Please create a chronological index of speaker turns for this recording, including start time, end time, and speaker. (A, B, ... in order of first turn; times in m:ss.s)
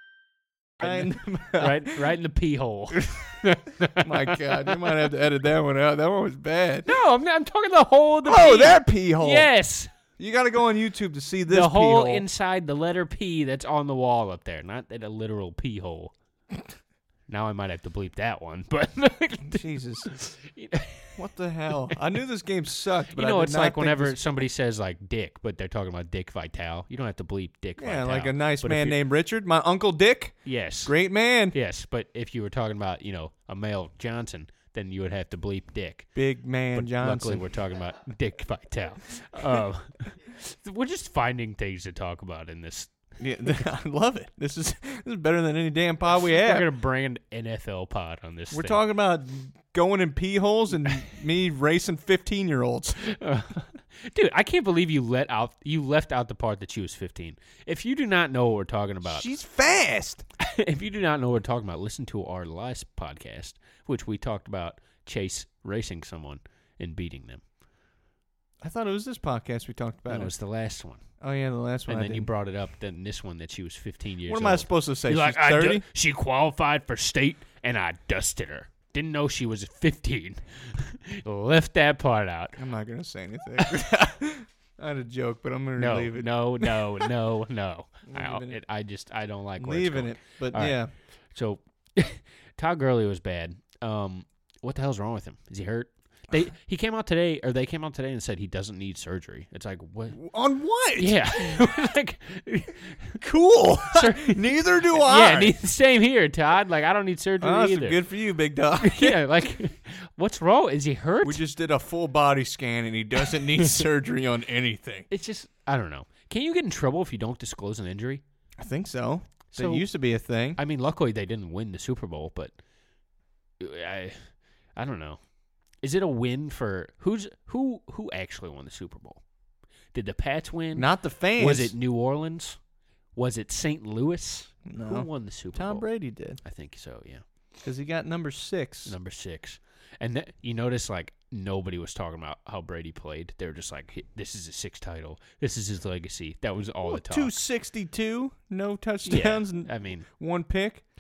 0:00.8-0:02.0 A
0:00.8-0:05.0 B
0:04.0-0:06.9 A
0:06.9-0:09.9 B
0:08.2-0:09.5 A
0:10.2-0:12.2 A
0:11.5-0:16.1 B
0:17.3-0:21.2 B
0:19.4-0:20.1 A
0:21.2-0:24.2 A
0:23.1-0:29.0 B
0:27.8-0:31.6 A
0:30.4-0:31.0 B
0:31.5-0:36.1 B
0:36.2-0:37.4 A
0:36.7-0:42.9 B
0:43.2-0:46.7 A
0:46.2-0:48.8 B
0:48.5-0:53.1 A
0:53.0-0:59.3 B
0:59.0-1:00.2 A
1:00.4-1:07.4 B
1:08.6-1:10.3 A
1:10.1-1:11.0 B
1:11.2-1:12.3 A
1:11.9-1:22.6 B
1:14.3-1:15.8 A
1:22.6-1:27.1 A
1:25.8-1:30.8 B
1:28.1-1:28.6 A
1:29.6-1:30.9 A
1:31.3-1:40.2 B
1:40.1-1:41.5 A
1:41.0-1:43.2 B
1:43.2-1:45.5 A
1:43.9-1:48.0 B
1:47.4-1:49.2 A
1:48.8-1:51.4 B
1:51.2-1:55.1 A
1:53.4-1:53.8 B
1:55.1-1:58.2 B
1:58.6-2:00.6 A
1:59.5-1:59.9 B
2:00.6-2:02.5 B
2:03.6-2:05.2 B
2:05.8-2:09.2 B
2:09.9-2:12.6 B
2:10.7-2:11.7 A
2:13.2-2:15.9 B
2:14.7-2:16.4 A
2:16.4-2:17.2 B
2:17.6-2:19.0 A
2:18.9-2:27.4 B
2:26.9-2:30.8 A
2:29.1-2:30.1 B